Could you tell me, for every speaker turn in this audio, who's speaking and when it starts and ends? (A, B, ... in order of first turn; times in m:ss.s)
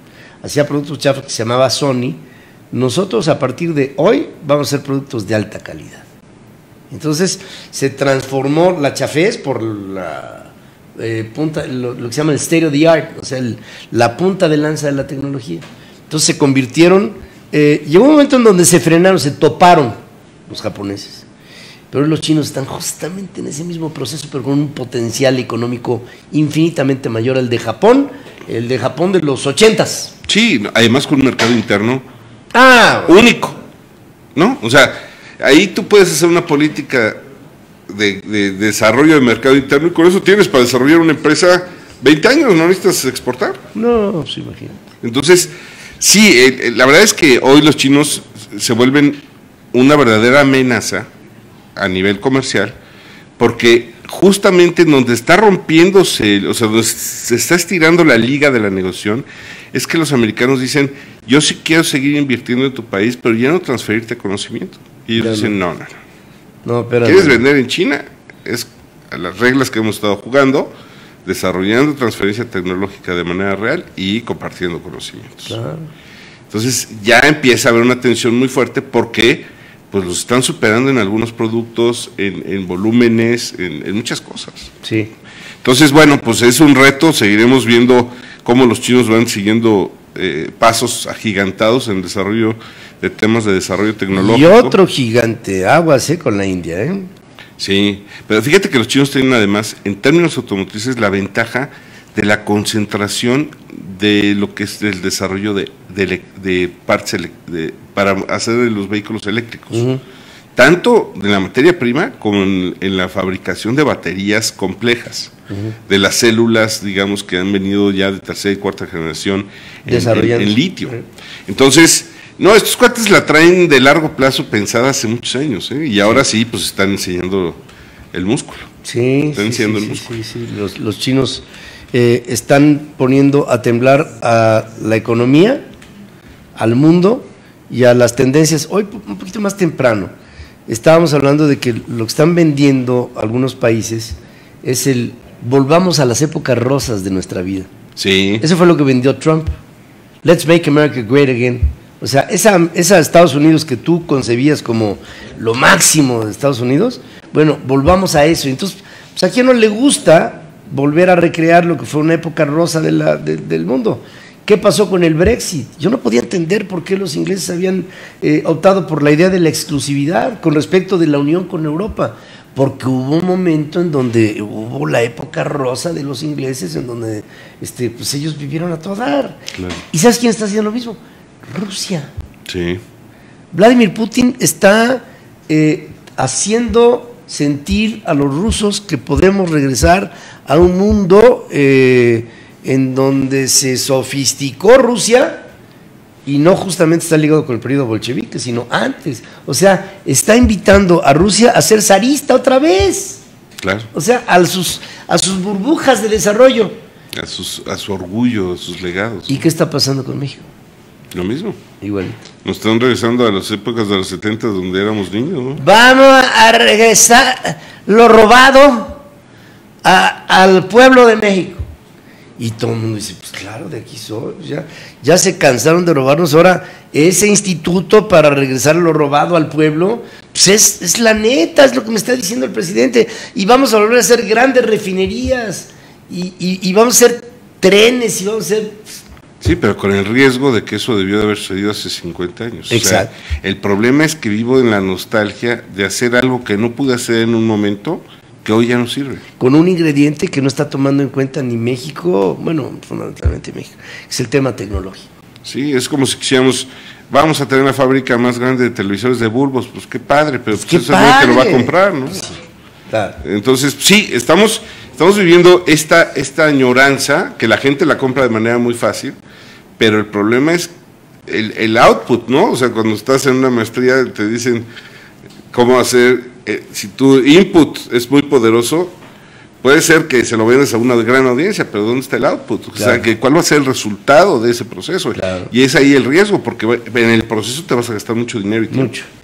0:00.4-0:06.0 A
0:06.9-0:21.2 A
0:21.9-0:30.1 A
0:30.3-0:32.0 B
0:32.5-0:33.3 A
0:33.1-0:33.6 B
0:34.3-0:37.2 B
0:37.9-0:43.6 B
0:43.7-0:44.8 A
0:45.0-0:49.2 B
0:49.7-0:51.1 B
0:51.8-0:52.8 B
0:53.4-1:06.0 B
1:05.2-1:05.5 A
1:06.6-1:07.4 A
1:07.0-1:10.7 B
1:11.2-1:15.6 B
1:15.5-1:15.9 A
1:16.5-1:24.7 B
1:24.8-1:25.1 A
1:25.6-1:34.8 B
1:34.1-1:37.1 A
1:37.6-1:49.9 B
1:49.7-1:50.0 A
1:50.6-1:55.3 B
1:55.5-1:55.8 A
1:55.9-2:01.0 B
1:59.9-2:01.0 A
2:01.5-2:07.6 B
2:08.1-2:08.7 B
2:08.8-2:15.6 A
2:09.4-2:10.0 B
2:16.6-2:20.1 A
2:20.7-2:27.7 A
2:28.0-2:28.4 B
2:28.4-2:29.5 A
2:30.2-2:59.4 A
2:59.5-2:59.8 B
2:59.9-3:02.1 A
3:02.5-3:02.8 B
3:03.5-3:15.5 A
3:16.2-3:23.2 A
3:23.6-3:23.9 B
3:23.9-3:26.8 A
3:27.1-3:29.4 B
3:29.3-3:30.5 A
3:31.1-3:31.6 B
3:31.8-3:32.2 A
3:32.4-3:35.6 B
3:35.6-3:39.0 A
3:39.8-3:41.6 A
3:42.4-3:58.9 A
3:59.4-4:09.2 B
4:02.7-4:03.1 A
4:09.4-4:15.1 A
4:15.4-4:22.3 B
4:20.5-4:23.2 A
4:23.2-4:29.2 B
4:29.8-4:30.7 B
4:31.3-4:34.7 B
4:35.5-4:38.9 B
4:39.6-4:48.9 B
4:42.8-4:43.0 A
4:45.2-4:45.5 A
4:48.7-4:49.1 A